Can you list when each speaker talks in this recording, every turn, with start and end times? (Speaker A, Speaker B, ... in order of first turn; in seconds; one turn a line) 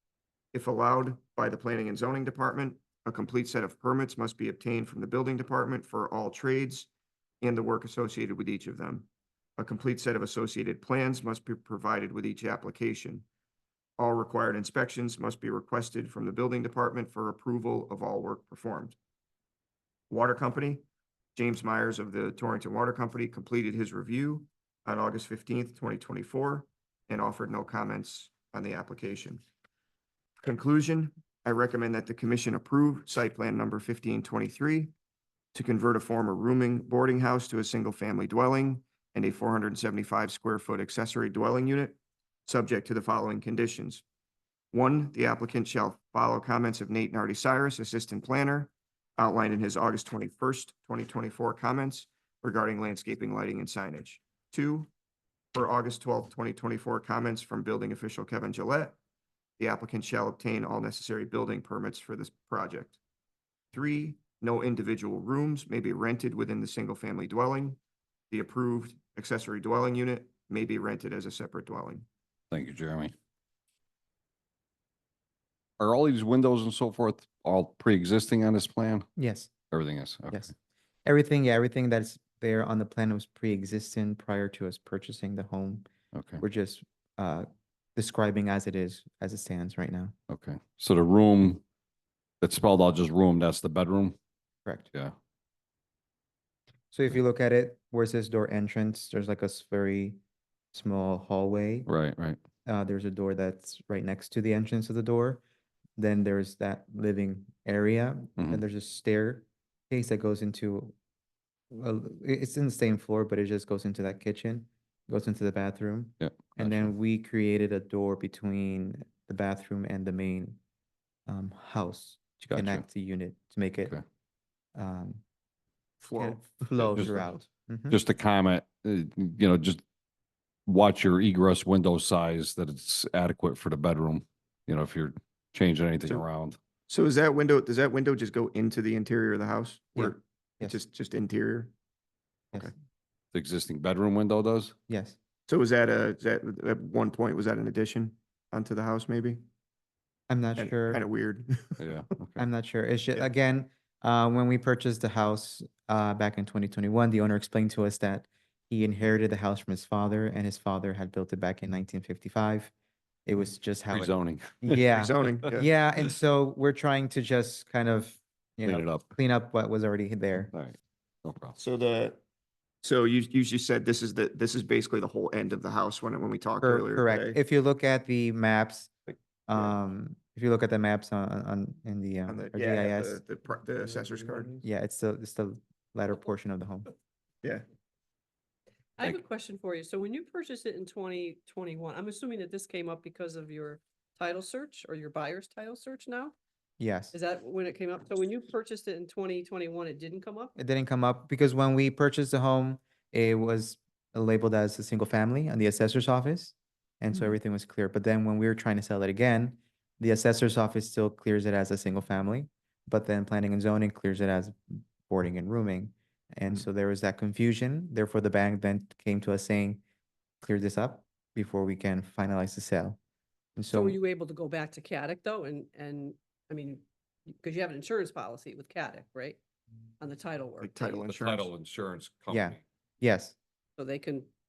Speaker A: 0.5-6.9
Speaker A: 7.4-13.2
Speaker A: 14.0-19.0
Speaker A: 20.1-20.8
Speaker A: 21.4-29.4
Speaker A: 30.4-34.9
Speaker A: 35.5-44.0
Speaker A: 44.7-54.9
Speaker A: 55.5-59.0
Speaker A: 59.6-63.0
Speaker A: 63.7-67.8
Speaker A: 68.3-72.0
Speaker B: 72.5-73.1
Speaker B: 75.8-79.1
Speaker C: 79.2-79.5
Speaker B: 79.7-80.5
Speaker C: 81.0-85.8
Speaker B: 86.1-86.4
Speaker C: 86.4-90.1
Speaker B: 90.3-91.6
Speaker B: 92.4-94.2
Speaker C: 96.9-100.2
Speaker C: 100.7-101.9
Speaker B: 101.9-102.4
Speaker C: 102.7-105.4
Speaker C: 106.0-110.9
Speaker B: 108.4-108.6
Speaker C: 111.7-120.6
Speaker B: 116.2-116.9
Speaker C: 121.3-123.9
Speaker B: 122.5-122.8
Speaker C: 124.8-125.2
Speaker A: 126.0-127.4
Speaker C: 126.1-128.0
Speaker B: 127.0-127.2
Speaker B: 127.9-129.8
Speaker B: 130.7-136.6
Speaker A: 136.9-141.7
Speaker C: 140.0-140.8
Speaker B: 143.3-144.7
Speaker C: 144.9-145.2
Speaker A: 145.5-149.4
Speaker C: 150.3-151.0
Speaker A: 150.6-151.8
Speaker B: 151.8-152.4
Speaker C: 152.4-162.7
Speaker C: 163.2-170.5
Speaker B: 163.9-164.9
Speaker A: 164.9-165.7
Speaker B: 168.6-169.2
Speaker B: 170.5-171.6
Speaker A: 171.6-172.2
Speaker A: 172.8-177.4
Speaker C: 176.6-178.9
Speaker A: 179.1-179.7
Speaker C: 179.5-183.2
Speaker A: 182.3-184.6
Speaker C: 184.6-186.9
Speaker D: 189.0-196.3
Speaker C: 196.8-197.1
Speaker D: 197.1-200.5
Speaker C: 200.6-219.8
Speaker C: 220.4-223.0
Speaker C: 223.6-224.0
Speaker D: 223.7-229.4
Speaker D: 230.0-231.0
Speaker A: 230.6-231.5
Speaker B: 231.1-232.6
Speaker C: 232.3-233.3
Speaker D: 233.8-234.3